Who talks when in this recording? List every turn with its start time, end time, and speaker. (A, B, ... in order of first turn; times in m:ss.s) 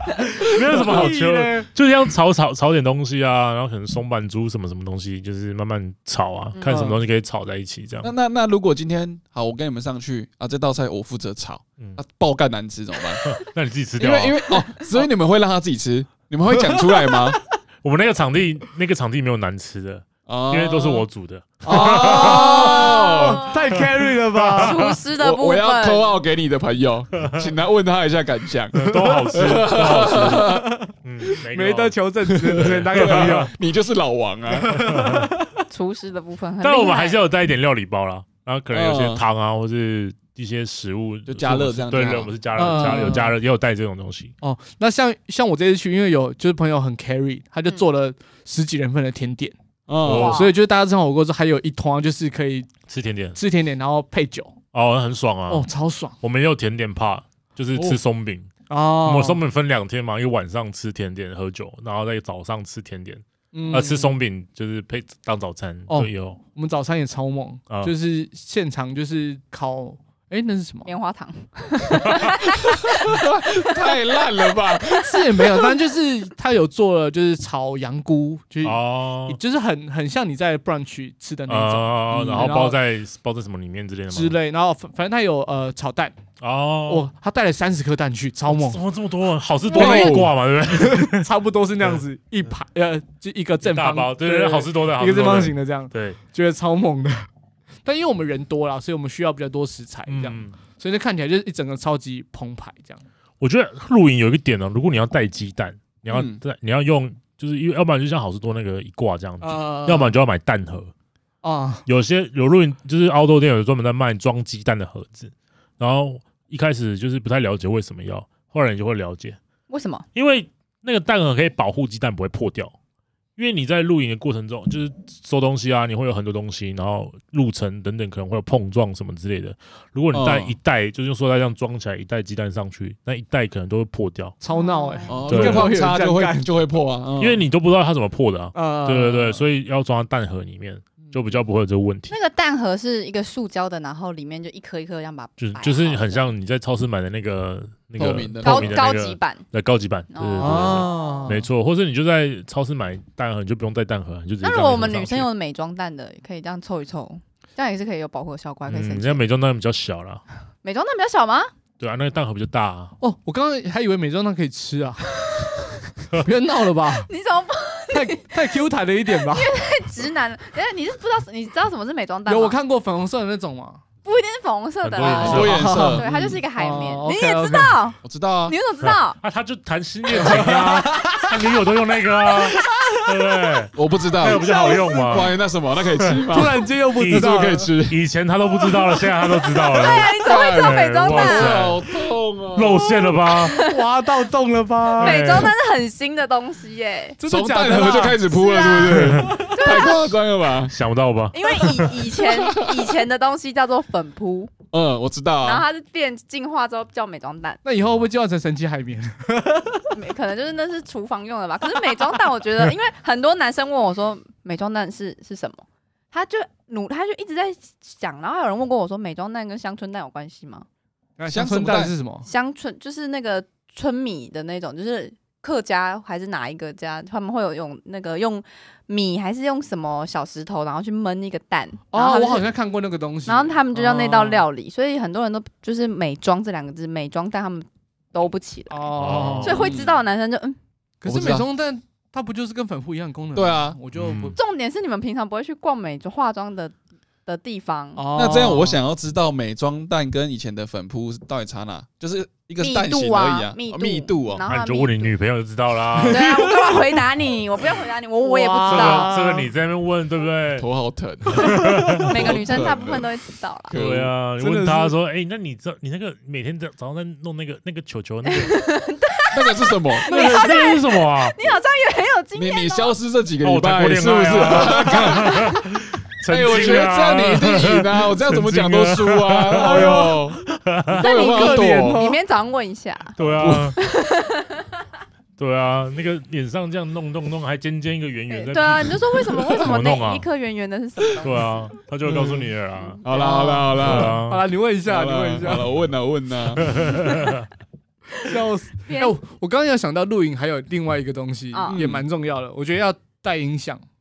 0:00.4-0:01.7 A
0:00.4-0:08.1 B
0:06.5-0:06.8 C
0:06.7-0:07.0 A
0:08.0-0:13.3 D
0:13.2-0:14.5 B
0:14.0-0:17.4 D
0:16.5-0:17.4 A
0:17.8-0:22.9 B
0:20.2-0:21.0 D
0:21.6-0:24.8 A
0:21.7-0:23.5 D
0:23.7-0:24.9 B
0:24.5-0:26.1 C
0:25.2-0:30.7 D
0:27.2-0:27.5 B
0:28.7-0:33.5 B
0:28.9-0:29.4 A
0:30.4-0:30.9 A
0:31.5-0:33.5 A
0:32.5-0:34.9 D
0:34.5-0:35.5 A
0:34.8-0:35.3 B
0:35.7-0:37.2 C
0:36.6-0:44.3 B
0:38.7-0:39.2 D
0:41.3-0:42.3 D
0:42.6-0:43.3 A
0:44.4-0:49.5 A
0:49.9-0:50.4 D
0:50.0-0:50.4 B
0:50.1-0:52.7 A
0:50.1-0:50.5 C
0:52.9-0:53.4 B
0:53.4-0:54.5 A
0:54.7-0:55.7 B
0:55.5-0:56.1 A
0:56.2-0:58.5 B
0:58.7-0:59.4 A
0:59.0-1:06.4 B
1:03.5-1:04.2 A
1:05.9-1:10.9 A
1:10.8-1:13.2 C
1:12.6-1:15.0 D
1:15.0-1:22.8 A
1:18.6-1:19.4 B
1:21.5-1:24.4 B
1:22.1-1:22.5 D
1:24.1-1:26.2 A
1:26.4-1:27.1 B
1:26.9-1:28.8 A
1:28.5-1:31.2 B
1:29.7-1:37.3 A
1:29.7-1:30.3 D
1:33.6-1:36.2 B
1:37.8-1:43.0 A
1:40.1-1:40.5 B
1:43.4-1:50.9 B
1:46.1-1:46.4 D
1:49.4-1:50.2 A
1:51.4-1:51.8 A
1:51.8-1:59.4 B
1:59.7-2:00.0 C
2:00.1-2:02.7 B
2:03.4-2:14.4 B
2:10.1-2:10.5 D
2:14.4-2:16.5 A
2:14.5-2:15.2 C
2:15.1-2:17.4 D
2:15.3-2:15.7 B
2:17.2-2:22.1 B
2:18.5-2:19.4 A
2:22.1-2:26.3 C
2:25.4-2:35.3 B
2:28.0-2:28.8 D
2:28.4-2:29.4 C
2:30.1-2:31.2 C
2:30.4-2:31.4 A
2:34.4-2:39.2 C
2:38.7-2:40.2 B
2:40.6-2:41.5 C
2:41.8-2:42.9 B
2:43.0-2:47.1 A
2:47.1-2:48.3 C
2:47.9-2:49.5 A
2:49.1-2:52.6 C
2:52.2-2:53.8 A
2:54.0-2:59.2 C
2:54.8-2:55.7 B
2:55.0-2:57.8 A
2:55.1-2:56.4 D
2:58.0-2:58.5 D
2:58.8-3:05.4 B
3:00.1-3:01.6 A
3:02.2-3:03.6 A
3:03.7-3:08.0 D
3:04.3-3:05.0 A
3:04.5-3:04.8 C
3:06.0-3:06.4 B
3:06.3-3:07.7 A
3:07.0-3:11.8 B
3:08.6-3:09.1 A
3:09.5-3:11.6 C
3:10.2-3:12.9 D
3:12.5-3:13.6 B
3:13.4-3:13.7 C
3:13.4-3:15.5 A
3:15.0-3:15.5 B
3:15.0-3:17.2 C
3:17.2-3:18.2 A
3:17.2-3:20.8 D
3:18.2-3:20.2 C
3:19.0-3:19.3 B
3:20.7-3:22.0 B
3:21.3-3:24.5 C
3:22.2-3:22.8 D
3:24.7-3:25.6 D
3:25.4-3:27.6 C
3:27.6-3:29.9 A
3:29.9-3:40.7 C
3:41.2-3:42.3 A
3:41.3-3:41.9 D
3:42.2-3:52.5 C
3:51.9-3:54.4 A
3:53.2-4:00.6 C
3:58.7-3:59.7 A
3:59.0-3:59.7 B
3:59.5-4:00.0 D
4:01.0-4:04.4 A
4:01.0-4:01.4 D
4:03.3-4:03.8 D
4:03.9-4:04.4 B
4:04.3-4:06.7 C
4:07.2-4:08.0 C
4:08.0-4:08.8 A
4:08.1-4:14.4 D
4:12.6-4:15.1 C
4:14.4-4:16.3 B
4:16.0-4:16.8 A
4:16.0-4:19.1 C
4:18.2-4:19.5 A
4:18.7-4:20.7 B
4:20.6-4:23.1 D
4:21.3-4:22.4 B
4:22.0-4:23.7 C
4:23.7-4:24.1 D
4:23.7-4:28.6 B
4:24.4-4:24.9 A
4:28.3-4:32.9 C
4:29.3-4:30.1 D
4:30.1-4:31.3 B
4:32.4-4:35.4 D
4:33.4-4:41.0 B
4:35.1-4:35.5 C
4:36.3-4:42.0 D
4:39.6-4:40.1 A
4:41.0-4:43.2 C
4:41.0-4:42.2 A
4:43.2-4:43.8 B
4:43.4-4:43.7 D
4:43.7-4:44.6 C
4:45.4-4:50.2 B
4:48.3-4:51.4 C
4:51.2-4:53.0 B
4:52.0-4:52.5 D
4:53.0-4:54.2 D
4:53.1-4:55.7 A
4:53.8-4:54.4 B
4:54.8-4:56.9 D
4:56.6-4:57.5 B
4:58.2-5:03.8 A
4:58.8-4:59.2 C
5:01.5-5:01.8 C
5:01.7-5:02.0 D